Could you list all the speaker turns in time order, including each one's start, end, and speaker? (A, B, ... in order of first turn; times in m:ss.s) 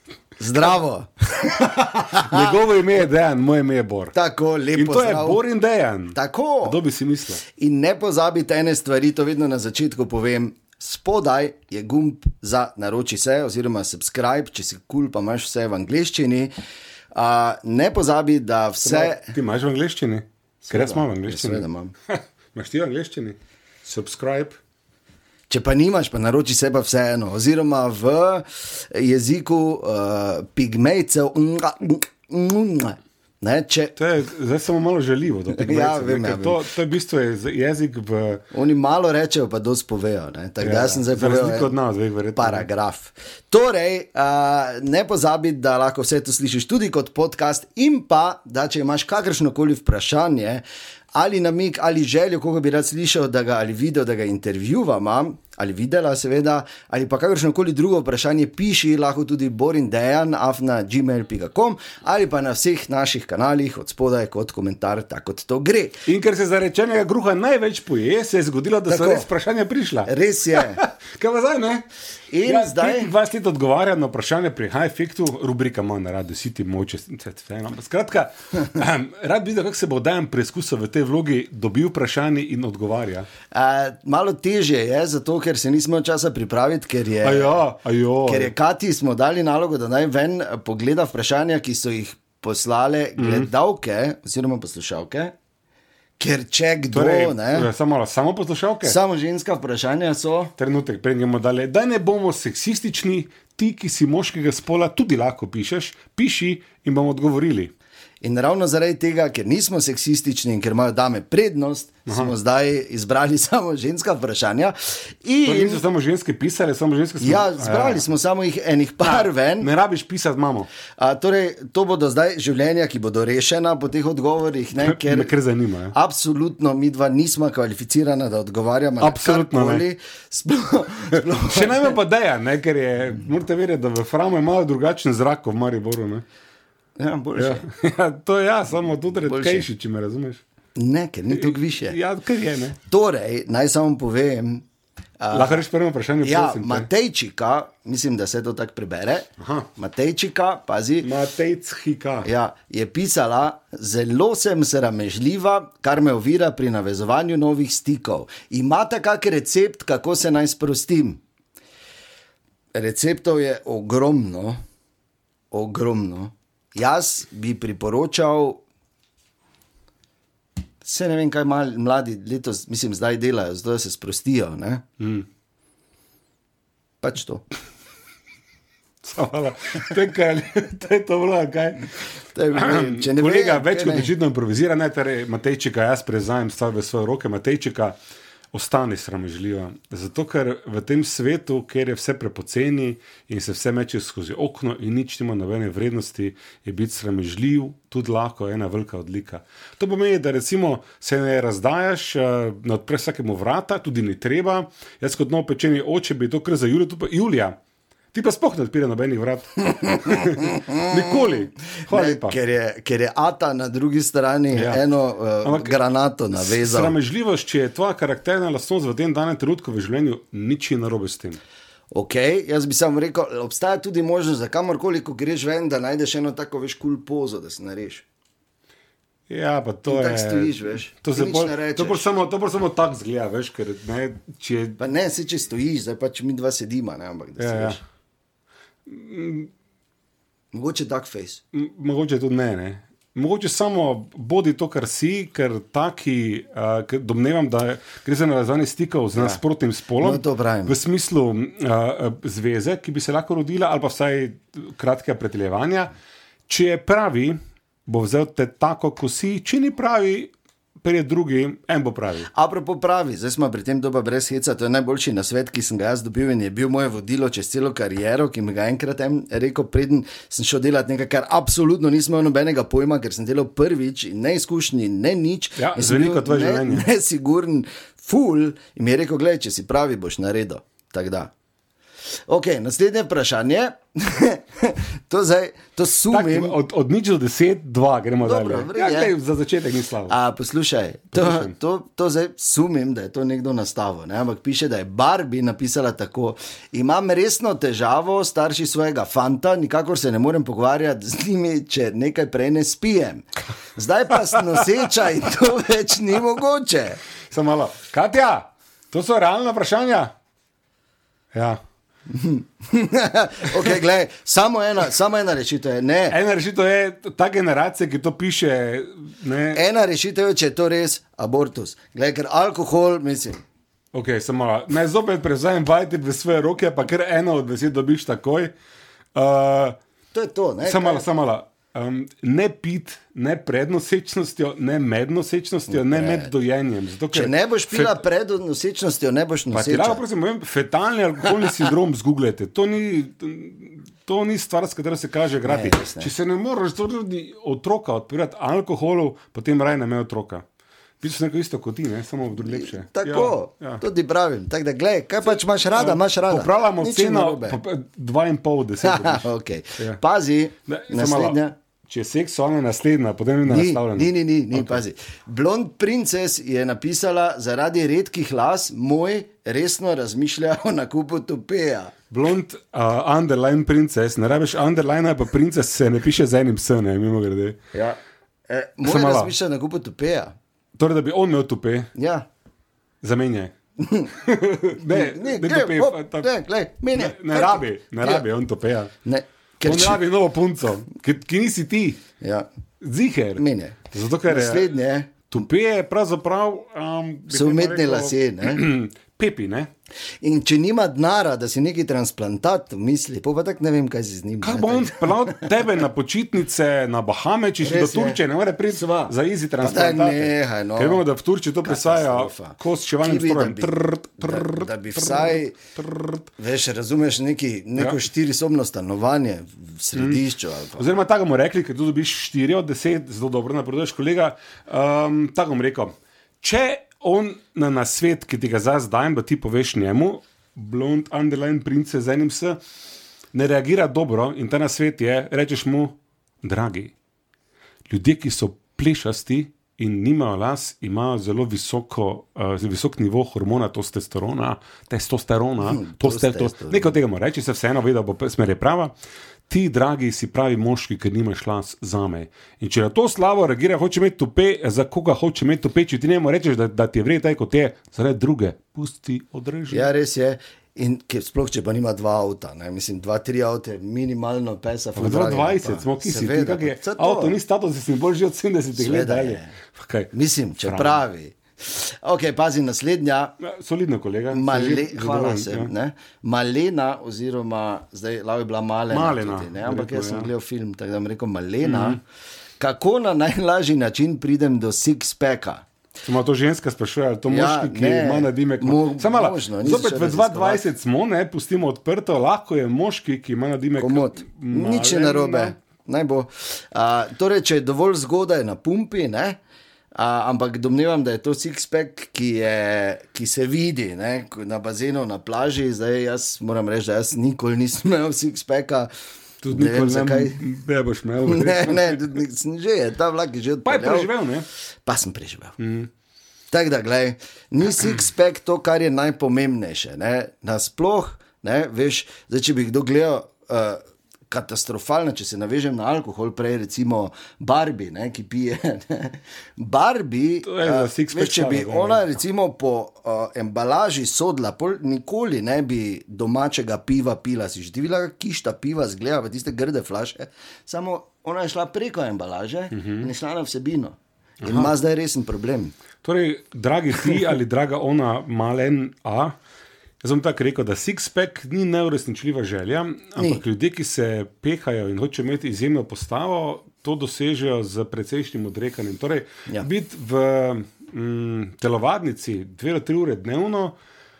0:00.4-0:02.6 A
0:01.9-0:04.1 B
0:04.1-0:05.4 A
0:04.7-0:07.4 B
0:06.1-0:06.8 A
0:07.5-0:16.5 A
0:17.1-0:19.3 A
0:18.8-0:24.6 B
0:20.6-0:21.9 A
0:25.5-0:34.0 A
0:34.0-0:38.4 B
0:35.5-0:36.6 A
0:38.5-0:41.7 A
0:40.6-0:42.6 B
0:42.4-1:06.0 A
1:06.0-1:11.8 B
1:08.9-1:09.3 A
1:10.0-1:10.8 A
1:12.3-1:13.1 A
1:12.4-1:23.3 B
1:23.5-1:27.6 A
1:27.2-1:28.5 B
1:28.2-1:35.3 A
1:33.2-1:33.5 B
1:36.2-1:37.7 A
1:36.9-1:39.0 B
1:38.8-1:40.5 A
1:40.6-1:47.7 B
1:48.2-1:55.8 A
1:52.1-1:52.3 B
1:55.4-1:58.0 B
1:57.2-1:59.7 A
1:59.0-2:00.7 B
2:01.0-2:05.3 A
2:04.8-2:05.9 B
2:05.9-2:12.0 A
2:09.0-2:09.8 B
2:11.2-2:16.2 B
2:17.0-2:17.7 A
2:17.4-2:20.4 B
2:19.2-2:19.7 A
2:20.8-2:22.0 A
2:21.3-2:22.8 B
2:22.8-2:24.6 A
2:25.2-2:25.6 A
2:25.3-2:26.9 B
2:26.2-2:31.1 A
2:29.4-2:29.7 B
2:31.0-2:32.3 B
2:32.2-2:41.2 A
2:42.7-2:44.6 A
2:45.5-2:48.6 A
2:50.8-2:54.8 A
2:55.0-2:55.2 B
2:57.0-2:57.4 A
2:59.0-3:01.9 B
3:02.3-3:04.1 A
3:02.5-3:08.0 B
3:08.5-3:27.6 B
3:28.1-3:32.4 B
3:30.6-3:30.8 A
3:31.9-3:36.9 A
3:34.5-3:34.8 B
3:35.4-3:35.8 B
3:36.4-3:41.4 B
3:41.9-3:48.0 A
3:49.3-3:54.8 B
3:49.9-3:52.1 A
3:54.8-3:57.8 A
3:57.4-3:57.8 B
3:58.9-3:59.5 B
4:00.5-4:01.4 A
4:01.5-4:15.9 B
4:09.1-4:09.4 A
4:10.0-4:10.8 A
4:16.5-4:20.3 B
4:20.8-4:22.3 B
4:22.3-4:41.3 A
4:35.6-4:36.9 B
4:42.3-4:46.6 A
4:46.1-4:50.1 B
4:48.2-4:49.1 A
4:50.0-5:07.0 A
4:51.1-4:51.5 B
5:07.3-5:10.1 B
5:11.3-5:11.6 B
5:12.1-5:16.2 A
5:16.1-5:19.6 B
5:19.5-5:23.4 A
5:23.9-5:28.5 B
5:29.1-5:29.7 B
5:30.1-5:31.1 A
5:30.6-5:38.0 B
5:35.7-5:36.3 A
5:37.1-5:40.0 A
5:39.5-5:50.4 B
5:45.4-5:46.1 A
5:51.0-5:53.8 B
5:52.4-5:57.6 A
5:55.7-5:59.3 B
5:58.8-6:01.5 A
6:00.7-6:04.8 B
6:03.4-6:11.9 A
6:12.1-6:17.6 B
6:17.7-6:20.3 A
6:18.8-6:19.3 B
6:20.8-6:21.9 B
6:21.9-6:22.2 A
6:23.0-6:23.5 B
6:23.8-6:24.1 A
6:24.1-6:26.3 B
6:24.8-6:28.2 A
6:26.9-6:28.9 B
6:29.0-6:30.0 A
6:29.6-6:32.0 B
6:32.2-6:32.5 A
6:32.8-6:34.7 B
6:33.4-6:35.3 A
6:35.3-6:39.7 B
6:37.3-6:38.6 A
6:40.2-6:45.6 A
6:44.4-6:56.2 B
6:47.6-6:51.0 A
6:51.6-6:55.6 A
6:56.3-7:00.9 A
7:00.0-7:00.2 B
7:00.8-7:12.6 B
7:13.3-7:16.9 B
7:17.9-7:28.9 B
7:25.6-7:27.0 A
7:29.5-7:39.9 B
7:39.7-7:47.4 A
7:45.0-7:50.1 B
7:48.7-7:49.5 A
7:50.1-7:53.4 A
7:50.6-7:51.0 B
7:53.4-7:55.7 B
7:54.3-8:02.0 A
7:58.9-8:00.3 B
8:01.6-8:02.0 B
8:02.6-8:05.6 A
8:06.0-8:15.5 B
8:07.3-8:10.7 A
8:13.8-8:19.4 A
8:19.9-8:28.9 A
8:29.4-8:32.1 B
8:29.5-8:30.4 A
8:31.2-8:34.1 A
8:33.6-8:34.5 B
8:34.8-8:35.6 A
8:35.6-8:35.9 B
8:36.5-9:05.7 A
8:50.4-8:52.1 B
9:02.7-9:03.1 B
9:04.4-9:04.7 B
9:06.0-9:09.3 B
9:10.0-9:23.7 B